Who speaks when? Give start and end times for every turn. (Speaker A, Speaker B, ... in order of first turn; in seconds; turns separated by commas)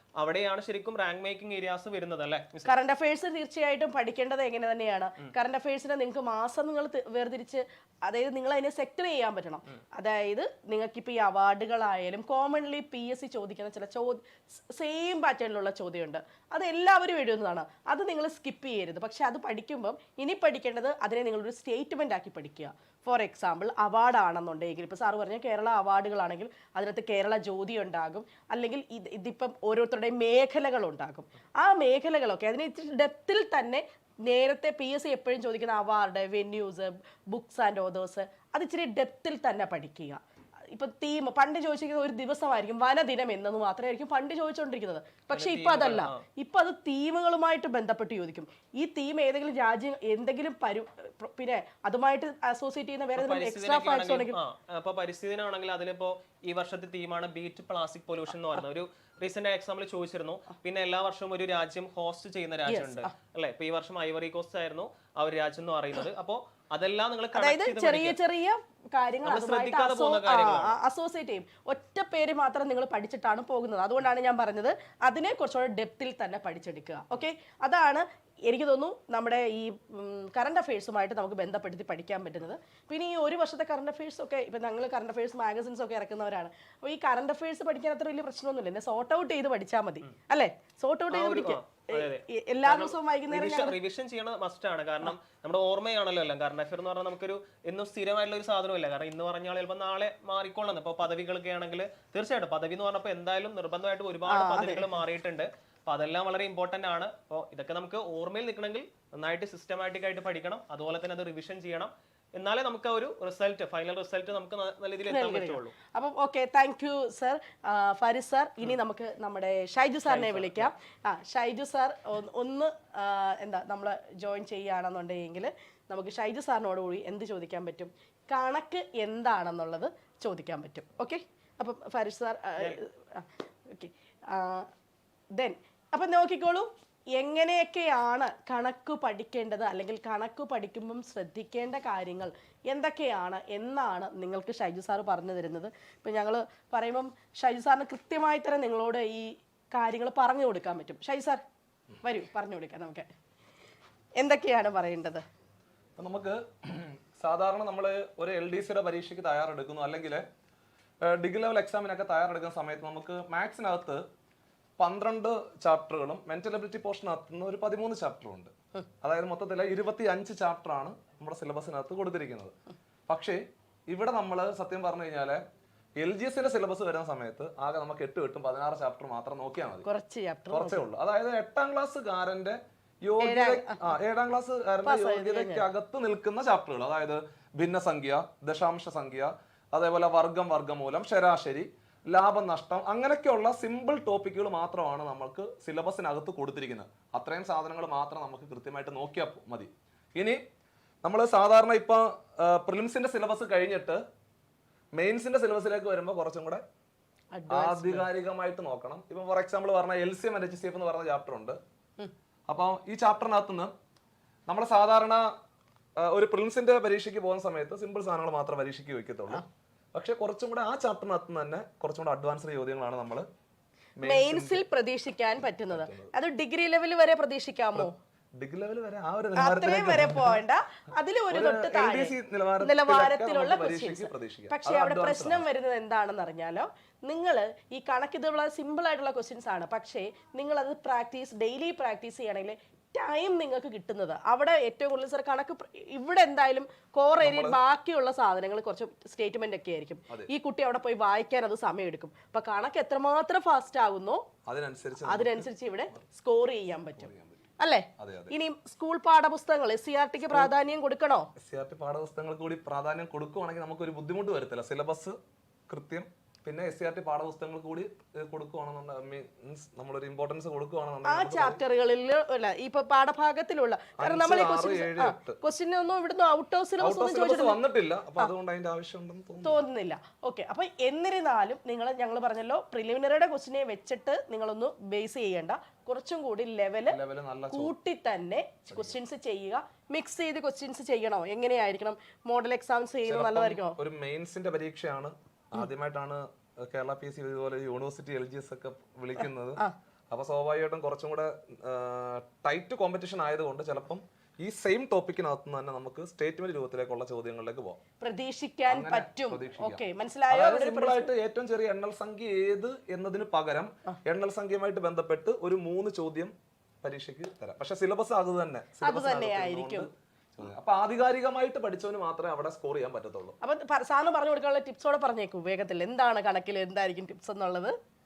Speaker A: 0.2-2.7, Speaker B: 2.6-40.2, Speaker B: 40.7-54.4, Speaker A: 45.3-46.2, Speaker A: 53.2-68.2, Speaker B: 62.7-63.1, Speaker B: 67.3-93.8, Speaker A: 69.2-70.8, Speaker A: 91.1-115.8, Speaker B: 104.3-104.9, Speaker B: 115.1-134.7, Speaker A: 120.1-120.7, Speaker B: 135.3-151.4, Speaker B: 152.0-153.1, Speaker B: 154.2-155.2, Speaker C: 156.0-160.3, Speaker C: 161.0-164.1, Speaker C: 164.8-172.5, Speaker C: 173.1-175.4, Speaker C: 176.0-179.9, Speaker B: 179.8-180.8, Speaker C: 180.5-200.4, Speaker B: 183.2-183.9, Speaker B: 184.8-185.7, Speaker C: 201.0-204.0, Speaker C: 204.9-206.6, Speaker B: 207.3-208.1, Speaker C: 207.5-211.6, Speaker C: 212.5-213.7, Speaker C: 214.5-215.3, Speaker C: 216.0-223.3, Speaker C: 224.0-224.7, Speaker B: 224.0-227.9, Speaker C: 225.7-226.1, Speaker C: 227.8-230.4, Speaker B: 229.4-254.2, Speaker C: 231.3-235.4, Speaker C: 247.2-247.6, Speaker C: 254.5-255.5, Speaker B: 255.0-261.3, Speaker C: 257.0-257.4, Speaker C: 258.0-258.3, Speaker C: 261.4-265.2, Speaker C: 265.7-271.6, Speaker B: 271.1-277.6, Speaker C: 274.0-275.4, Speaker C: 276.8-279.6, Speaker B: 279.4-287.0, Speaker C: 286.9-287.8, Speaker B: 287.5-293.8, Speaker C: 288.7-288.9, Speaker C: 293.1-307.8, Speaker B: 308.0-311.1, Speaker C: 308.7-323.4, Speaker B: 318.8-319.9, Speaker B: 323.4-327.8